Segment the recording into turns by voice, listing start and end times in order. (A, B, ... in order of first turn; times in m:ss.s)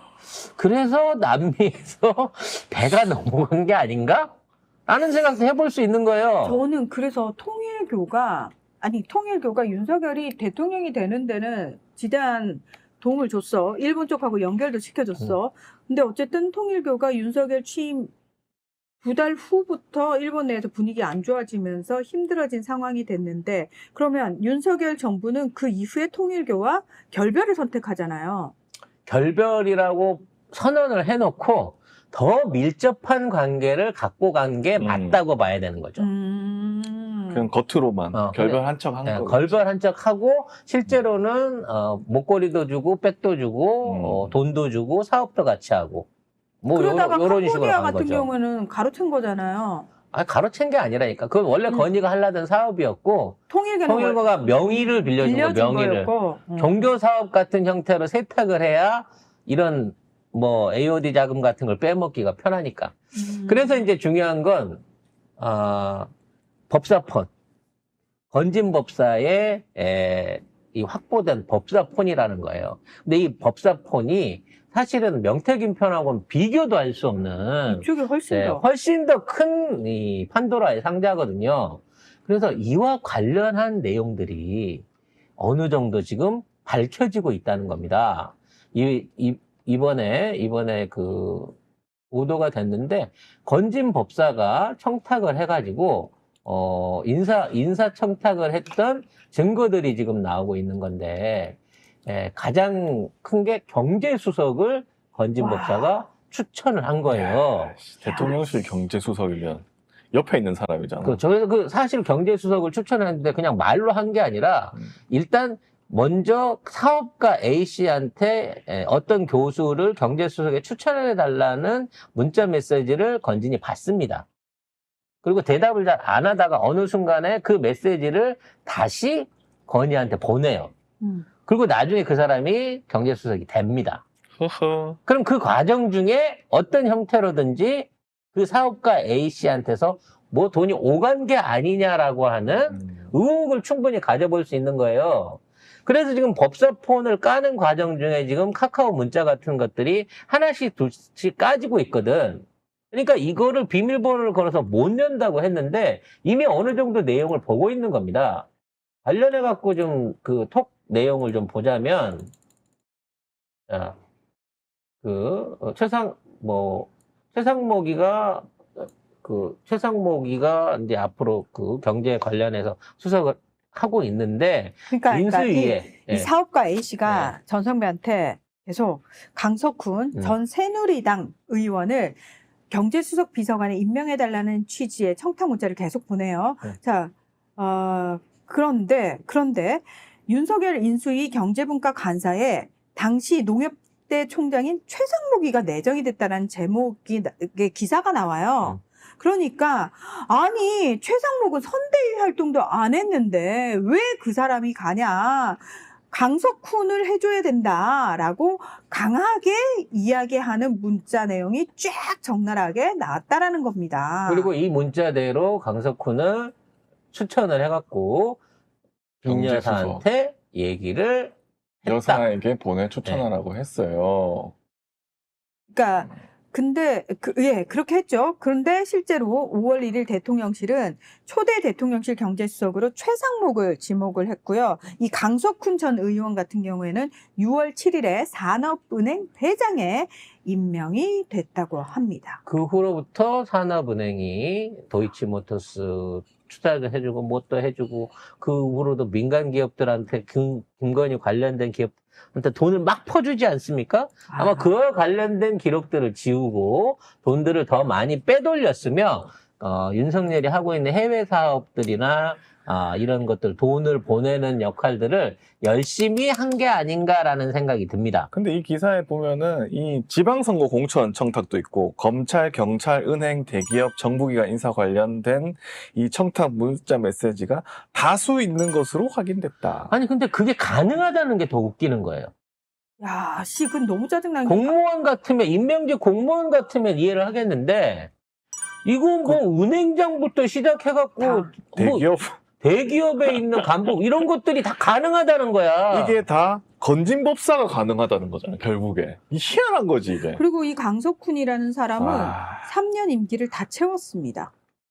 0:00.4-0:04.3 A
0:04.9-0:06.6 A
0:06.4-0:18.1 B
0:19.0-0:28.5 B
0:29.0-0:36.1 A
0:34.8-0:35.2 C
0:36.0-0:37.4 B
0:37.3-0:39.6 C
0:38.1-0:46.1 A
0:43.8-0:44.4 C
0:46.6-0:48.3 A
0:46.7-0:49.9 B
0:50.1-1:04.8 A
0:53.5-0:56.8 B
1:03.2-1:03.8 B
1:05.4-1:06.1 A
1:06.7-1:07.3 A
1:08.3-1:24.8 A
1:17.7-1:18.6 B
1:25.4-1:31.6 A
1:32.1-1:47.8 A
1:45.4-1:45.9 B
1:47.1-1:51.2 C
1:48.0-1:48.4 B
1:51.0-2:04.2 A
2:05.2-2:10.7 A
2:11.4-2:14.0 A
2:14.4-2:15.0 C
2:15.0-2:38.5 A
2:39.0-2:42.3 A
2:43.7-2:44.0 A
2:45.0-2:56.3 A
2:54.9-3:02.2 B
2:57.0-2:57.3 A
3:02.7-3:34.5 B
3:34.2-3:36.5 A
3:37.1-3:38.4 A
3:39.2-3:42.2 A
3:39.2-3:40.0 C
3:41.8-3:44.5 C
3:45.7-4:02.4 B
4:02.4-4:28.3 A
4:14.3-4:14.7 B
4:28.3-4:39.9 C
4:39.9-4:42.3 A
4:43.0-4:44.7 B
4:44.4-4:48.1 A
4:48.8-4:52.0 A
4:51.2-4:51.5 B
4:51.8-4:52.3 C
4:52.6-4:56.2 A
4:55.9-5:00.4 C
5:00.3-5:04.5 B
5:02.0-5:02.7 C